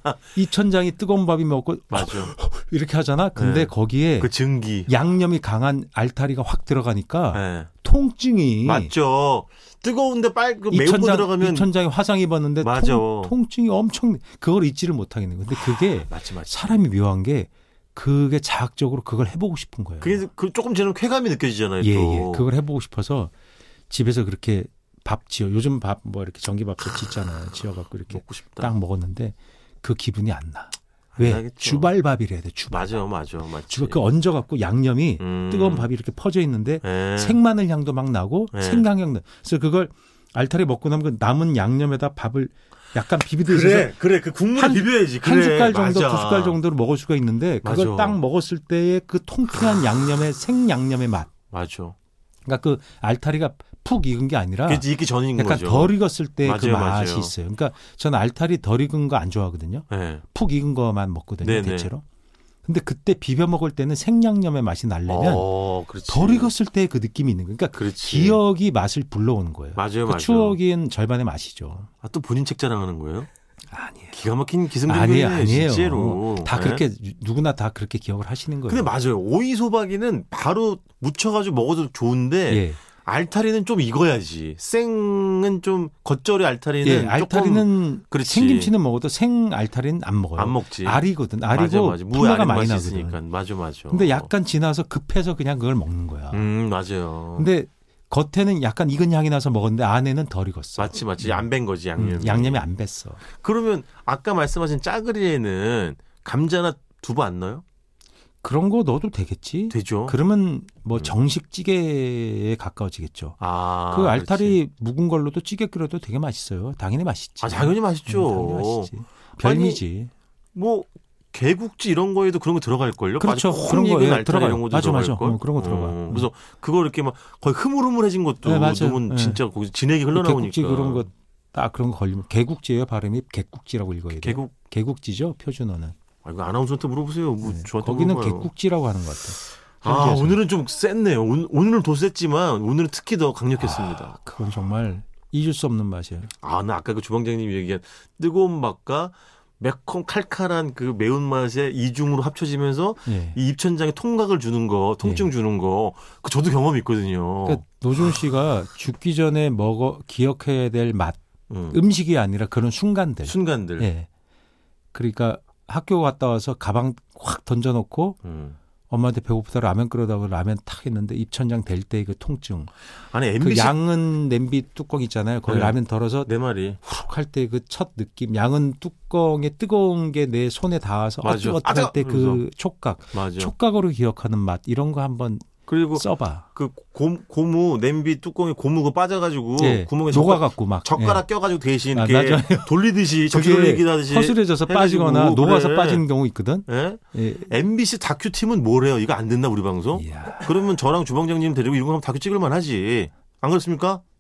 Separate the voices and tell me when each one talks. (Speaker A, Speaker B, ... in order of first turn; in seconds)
Speaker A: 0.3-4.3, 4.9-8.9, 10.7-20.2, 21.8-23.3, 23.9-33.0, 33.7-43.9, 44.5-51.3, 52.5-62.0, 62.6-65.5, 66.1-71.9, 73.7-74.2, 74.8-78.9, 82.5-82.8, 86.8-93.2, 93.9-96.5, 97.3-103.2, 108.4-120.1, 123.2-126.3, 128.4-129.4, 130.1-135.9, 137.4-140.4, 143.6-146.3, 153.1-153.4, 155.0-155.3, 157.4-161.2, 161.7-164.1, 164.9-168.2, 168.9-172.7, 173.4-186.4, 189.6-191.2, 191.9-192.7, 193.3-197.5, 199.9-200.6
Speaker B: 1.9-2.3, 3.3-4.9, 7.3-7.7, 8.6-11.7, 12.6-13.3, 16.0-16.8, 20.0-22.4, 28.1-28.7, 31.1-31.9, 32.7-34.0, 35.2-35.9, 36.8-37.4, 38.5-38.9, 43.4-46.6, 47.6-48.2, 51.5-52.0, 54.7-57.3, 59.9-60.2, 61.4-61.9, 65.0-66.5, 67.7-68.4, 69.8-70.6, 72.0-73.3, 74.1-76.8, 78.7-88.7, 90.3-94.3, 96.3-97.5, 100.8-102.7, 103.3-107.6, 109.7-110.2, 113.4-114.6, 117.4-119.8, 120.5-131.1, 134.2-134.6, 136.2-138.5, 139.8-144.2, 146.4-157.6, 161.5-161.8, 163.2-163.9, 168.2-168.6, 173.1-173.8, 175.4-176.8, 181.2-182.4, 183.1-183.5, 185.6-196.1, 196.7-204.0